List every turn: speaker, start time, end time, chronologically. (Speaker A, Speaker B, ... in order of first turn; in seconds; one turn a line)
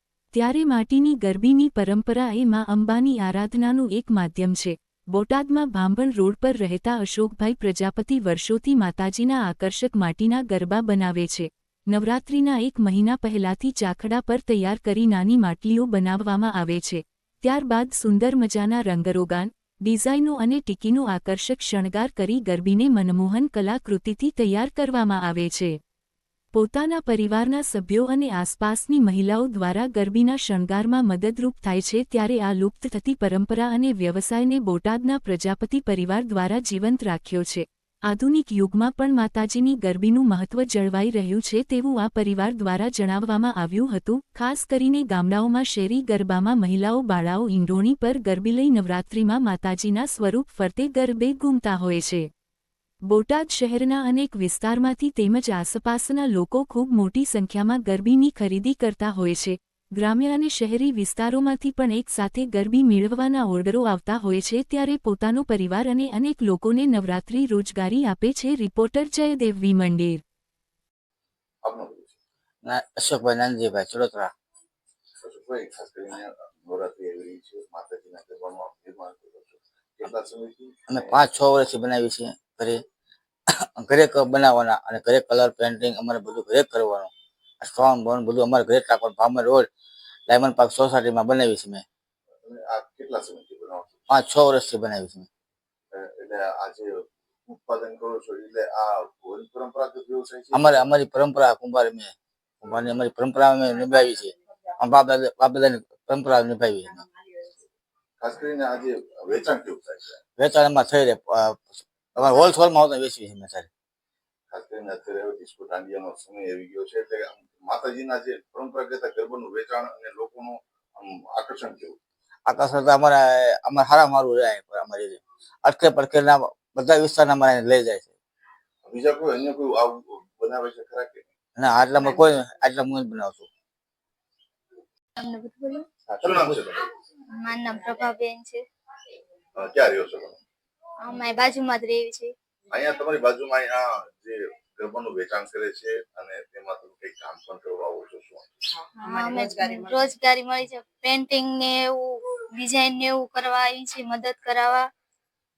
Speaker A: 0.3-25.8
Speaker A: 26.5-52.3
Speaker A: 53.1-70.2
Speaker B: 71.6-72.1
Speaker C: 72.6-74.3
Speaker B: 75.2-81.0
Speaker C: 80.9-82.8
Speaker C: 83.8-89.7
Speaker C: 90.3-91.8
Speaker B: 92.4-94.0
Speaker C: 94.1-95.3
Speaker B: 95.9-100.9
Speaker C: 100.5-107.0
Speaker B: 108.2-110.2
Speaker C: 110.4-113.7
Speaker B: 114.5-122.0
Speaker C: 122.5-128.1
Speaker B: 128.8-131.2
Speaker C: 131.6-133.4
Speaker D: 135.2-135.8
Speaker B: 136.1-136.9
Speaker C: 136.2-136.6
Speaker D: 137.4-138.6
Speaker B: 139.6-140.4
Speaker D: 141.0-142.3
Speaker B: 142.7-148.6
Speaker D: 149.0-154.9